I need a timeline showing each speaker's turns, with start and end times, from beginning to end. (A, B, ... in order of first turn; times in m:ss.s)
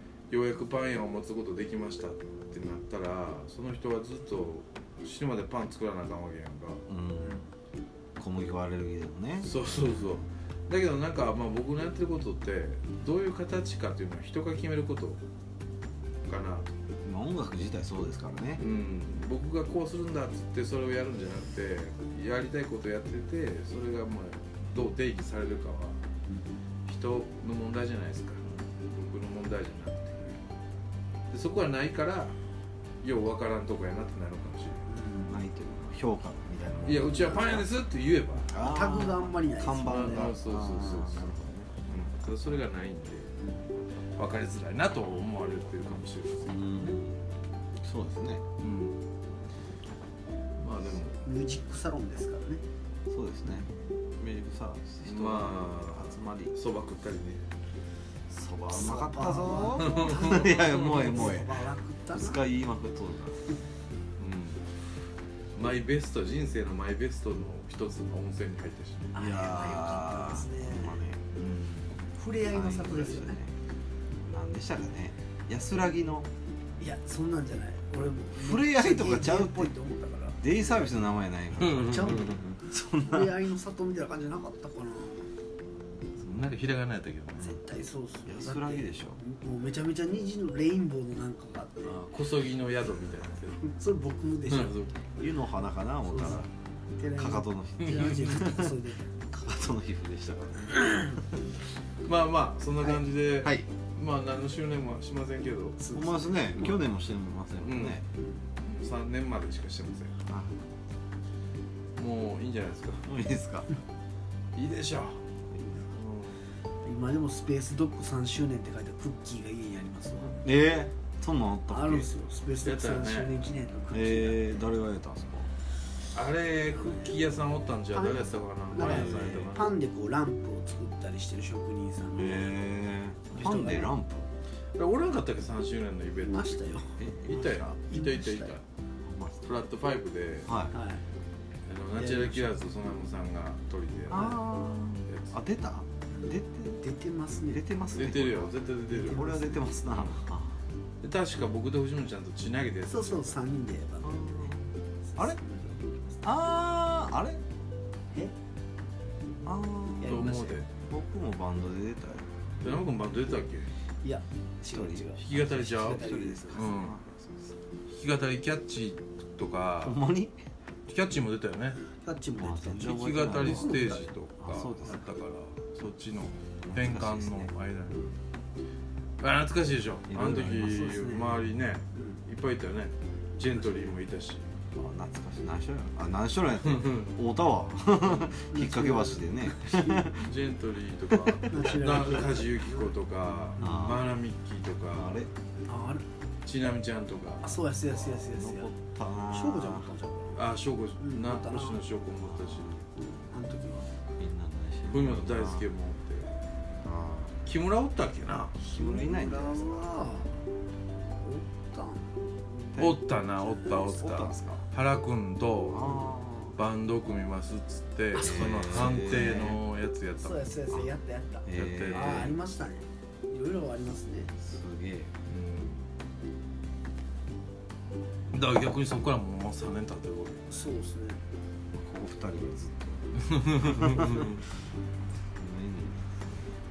0:00.3-0:06.8 A
0:06.9-0:07.5 B
0:08.2-0:09.5 B
0:09.4-0:15.2 A
0:16.3-0:16.7 A
0:17.0-0:18.6 B
0:18.6-0:26.0 A
0:26.3-0:26.6 C
0:26.9-0:30.4 A
0:31.3-0:32.3 A
0:33.0-0:34.8 A
0:34.9-0:35.4 C
0:35.3-0:37.6 B
0:36.8-0:38.7 A
0:37.1-0:37.6 C
0:38.5-0:41.7 B
0:38.6-0:40.3 C
0:39.8-0:41.3 A
0:41.8-0:43.3 A
0:43.4-0:43.7 C
0:44.0-0:46.5 A
0:46.4-0:47.2 B
0:47.8-0:48.4 B
0:48.6-0:49.0 A
0:50.6-0:51.3 A
0:51.2-0:52.6 C
0:53.1-0:53.7 B
0:54.2-0:57.4 A
0:54.4-0:56.5 B
0:58.3-1:01.6 B
0:58.7-1:02.4 C
0:59.8-1:01.1 A
1:02.1-1:03.4 B
1:04.2-1:04.6 A
1:05.5-1:09.2 A
1:09.1-1:11.1 C
1:09.2-1:11.2 B
1:11.3-1:11.9 A
1:12.1-1:13.4 C
1:12.4-1:13.5 B
1:14.2-1:16.3 B
1:16.8-1:20.9 C
1:18.3-1:19.7 B
1:20.4-1:23.4 B
1:21.6-1:22.4 A
1:21.7-1:22.4 C
1:23.0-1:25.3 C
1:26.2-1:27.6 A
1:27.4-1:32.0 C
1:28.2-1:29.2 B
1:31.8-1:33.6 A
1:33.6-1:35.1 C
1:34.5-1:34.9 A
1:35.2-1:36.5 B
1:36.0-1:36.4 C
1:37.0-1:39.1 C
1:37.1-1:41.3 B
1:40.7-1:41.1 C
1:42.0-1:45.8 A
1:45.8-1:46.8 C
1:45.9-1:48.0 B
1:47.6-1:48.0 A
1:48.2-1:48.4 C
1:48.6-1:50.1 A
1:50.3-1:50.7 B
1:51.9-1:53.0 A
1:53.0-1:53.7 B
1:54.5-1:55.3 A
1:55.9-1:56.4 A
1:56.8-2:00.4 C
2:00.4-2:02.1 B
2:01.7-2:04.7 C
2:02.6-2:03.5 A
2:03.9-2:05.5 B
2:06.1-2:09.8 A
2:06.7-2:07.2 C
2:07.9-2:12.5 C
2:08.7-2:09.4 B
2:12.1-2:14.3 B
2:13.3-2:13.9 C
2:14.7-2:18.6 A
2:16.2-2:17.0 C
2:17.0-2:17.8 B
2:17.9-2:18.5 C
2:19.0-2:19.4 B
2:19.4-2:20.5 A
2:20.4-2:20.7 B
2:20.7-2:21.0 C
2:21.6-2:24.4 A
2:21.9-2:22.5 C
2:24.1-2:26.8 B
2:25.0-2:25.4 A
2:26.1-2:27.6 C
2:27.5-2:30.6 B
2:27.9-2:30.2 A
2:28.9-2:29.6 C
2:31.0-2:33.3 A
2:32.8-2:36.2 C
2:34.0-2:35.4 B
2:36.2-2:37.4 B
2:39.4-2:42.3 B
2:40.0-2:40.6 C
2:40.0-2:40.7 A
2:42.6-2:43.7 A
2:44.0-2:46.7 C
2:44.7-2:47.5 B
2:45.2-2:47.0 A
2:47.9-2:50.0 A
2:49.8-2:50.4 B
2:50.9-2:51.8 A
2:52.0-2:54.1 C
2:52.4-2:55.0 B
2:52.8-2:58.1 A
2:56.6-2:57.5 B
2:59.2-3:04.5 A
3:00.1-3:00.8 B
3:00.5-3:02.2 C
3:04.7-3:10.3 B
3:06.6-3:07.1 A
3:08.5-3:10.2 C
3:10.2-3:15.2 A
3:11.5-3:12.9 C
3:13.6-3:14.0 C
3:13.6-3:14.1 B
3:14.9-3:15.3 B
3:15.6-3:16.0 C
3:16.4-3:18.1 A
3:17.4-3:18.7 C
3:18.0-3:19.9 B
3:19.3-3:20.4 C
3:20.3-3:22.8 A
3:21.0-3:21.8 C
3:22.2-3:22.8 B
3:22.9-3:23.9 C
3:24.2-3:25.7 B
3:24.9-3:26.4 A
3:26.8-3:27.4 B
3:27.4-3:28.6 A
3:28.6-3:30.4 C
3:28.6-3:29.9 B
3:31.0-3:33.9 C
3:32.7-3:33.0 B
3:32.8-3:35.9 A
3:33.8-3:34.6 B
3:35.7-3:36.6 B
3:36.5-3:40.6 A
3:38.1-3:39.6 C
3:38.2-3:39.6 B
3:40.2-3:44.3 C
3:41.4-3:42.3 B
3:41.5-3:42.3 A
3:44.4-3:45.1 B
3:45.2-3:45.8 A
3:48.3-3:50.4 A
3:50.5-3:51.2 C
3:51.7-3:54.3 B
3:53.2-3:54.4 A
3:55.3-3:56.5 B